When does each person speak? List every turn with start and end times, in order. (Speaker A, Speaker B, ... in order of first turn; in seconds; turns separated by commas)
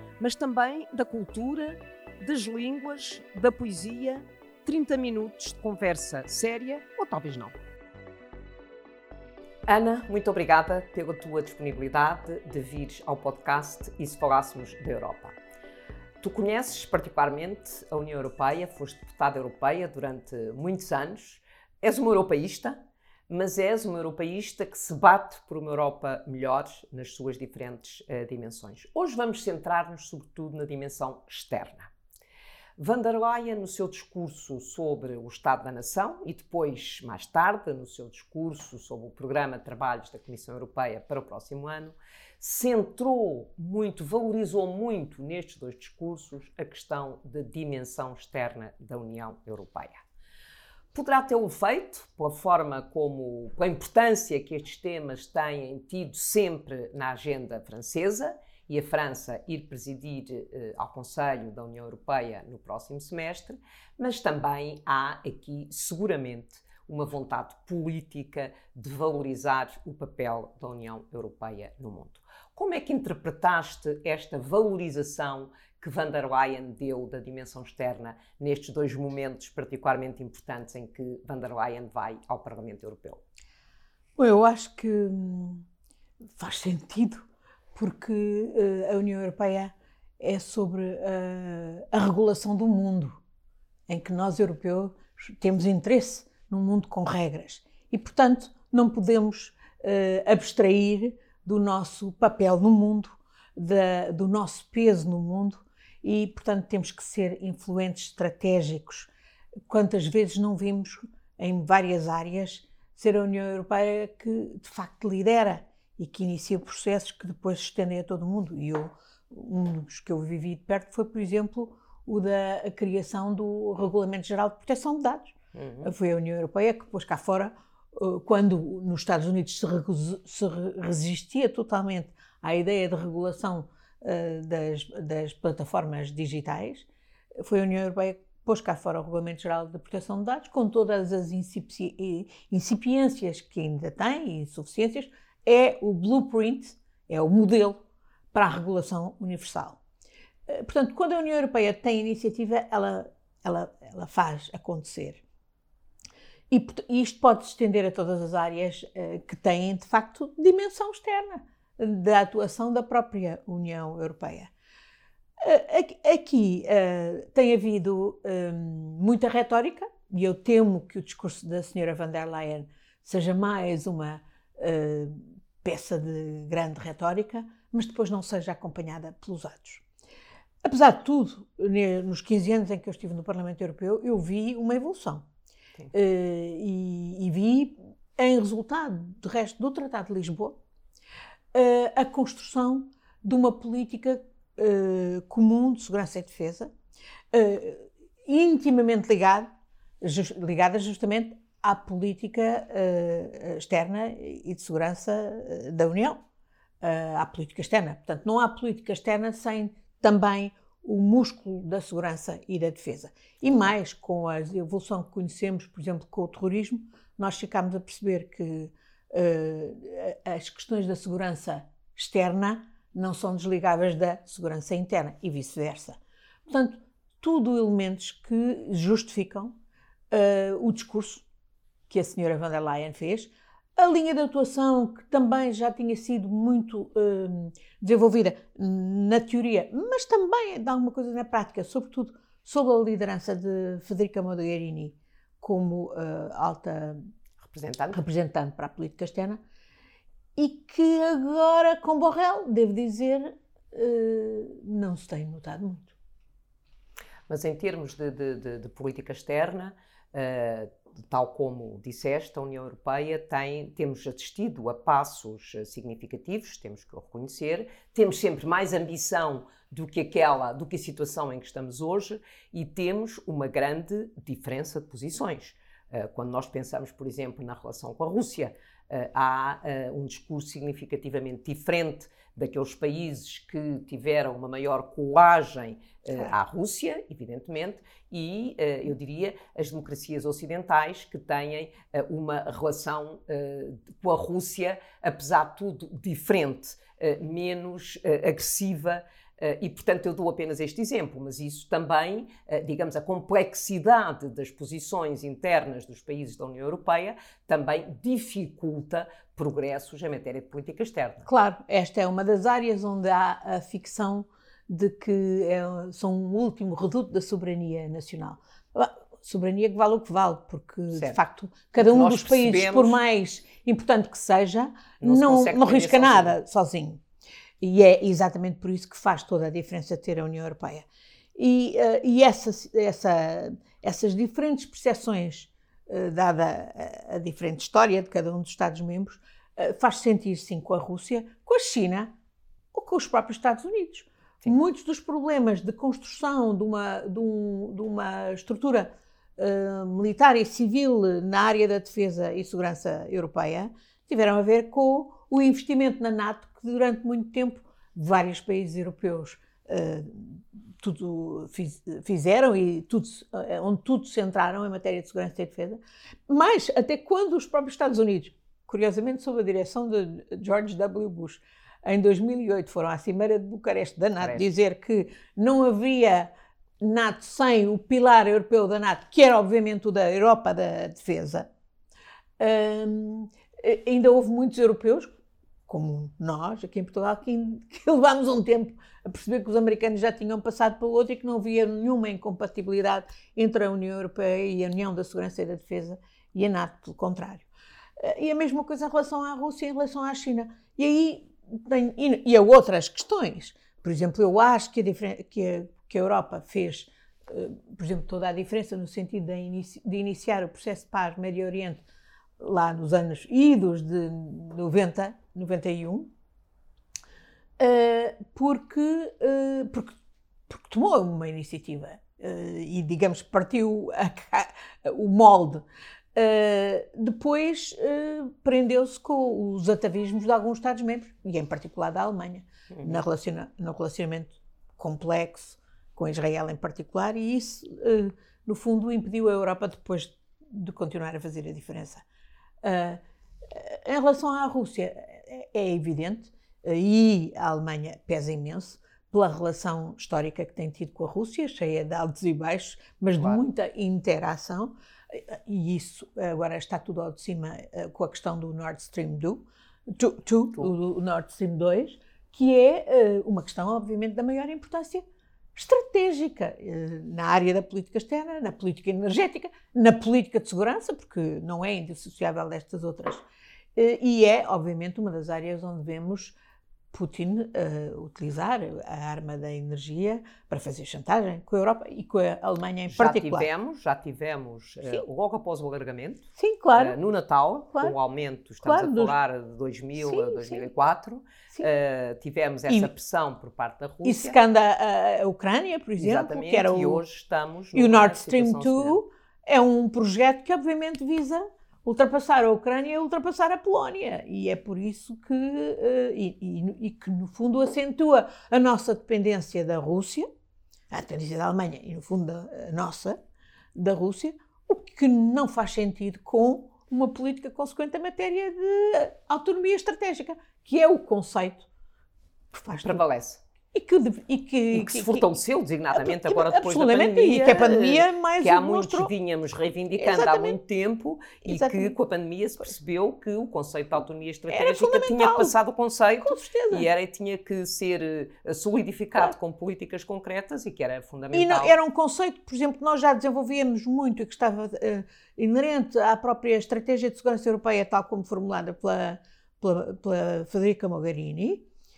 Speaker A: 0.2-7.5, Speaker A: 9.7-15.4, Speaker A: 16.2-22.8, Speaker A: 23.3-31.9, Speaker A: 32.8-50.0, Speaker A: 50.9-83.2, Speaker B: 84.2-85.7, Speaker B: 86.4-93.2, Speaker B: 93.9-109.1, Speaker B: 109.7-147.8, Speaker A: 125.5-125.9, Speaker B: 148.3-149.8, Speaker B: 150.5-155.2, Speaker B: 156.5-164.5, Speaker B: 165.4-179.8, Speaker B: 180.6-185.2, Speaker B: 185.9-190.6, Speaker B: 191.5-196.7, Speaker B: 197.3-199.5, Speaker B: 200.0-206.2, Speaker B: 206.8-229.5, Speaker B: 230.1-231.2, Speaker B: 231.9-247.0, Speaker A: 247.4-248.0, Speaker B: 247.9-249.4, Speaker B: 250.4-255.9, Speaker A: 257.3-311.3, Speaker B: 311.3-327.0, Speaker A: 320.9-321.2, Speaker A: 321.8-323.0, Speaker A: 325.0-326.4, Speaker B: 327.6-342.1, Speaker B: 342.7-381.5, Speaker A: 374.2-374.5, Speaker B: 382.4-385.1, Speaker B: 385.7-397.5, Speaker B: 398.0-411.8, Speaker B: 412.4-416.1, Speaker B: 417.6-420.0, Speaker B: 420.5-442.0, Speaker A: 432.7-433.0, Speaker B: 442.6-465.0, Speaker B: 465.6-473.2, Speaker B: 473.8-476.4, Speaker B: 476.9-483.5, Speaker A: 482.9-494.4, Speaker B: 486.4-487.0, Speaker B: 488.6-489.1, Speaker B: 490.0-490.7, Speaker B: 494.0-497.0, Speaker A: 496.0-499.0, Speaker B: 497.7-510.3, Speaker B: 510.9-513.2, Speaker B: 513.8-521.7, Speaker B: 522.5-523.0, Speaker A: 522.8-523.4, Speaker B: 523.7-525.3, Speaker A: 524.7-541.8, Speaker B: 525.9-529.1, Speaker B: 530.0-530.6, Speaker B: 531.5-532.0, Speaker B: 534.5-535.5, Speaker B: 536.2-536.9, Speaker B: 541.3-551.6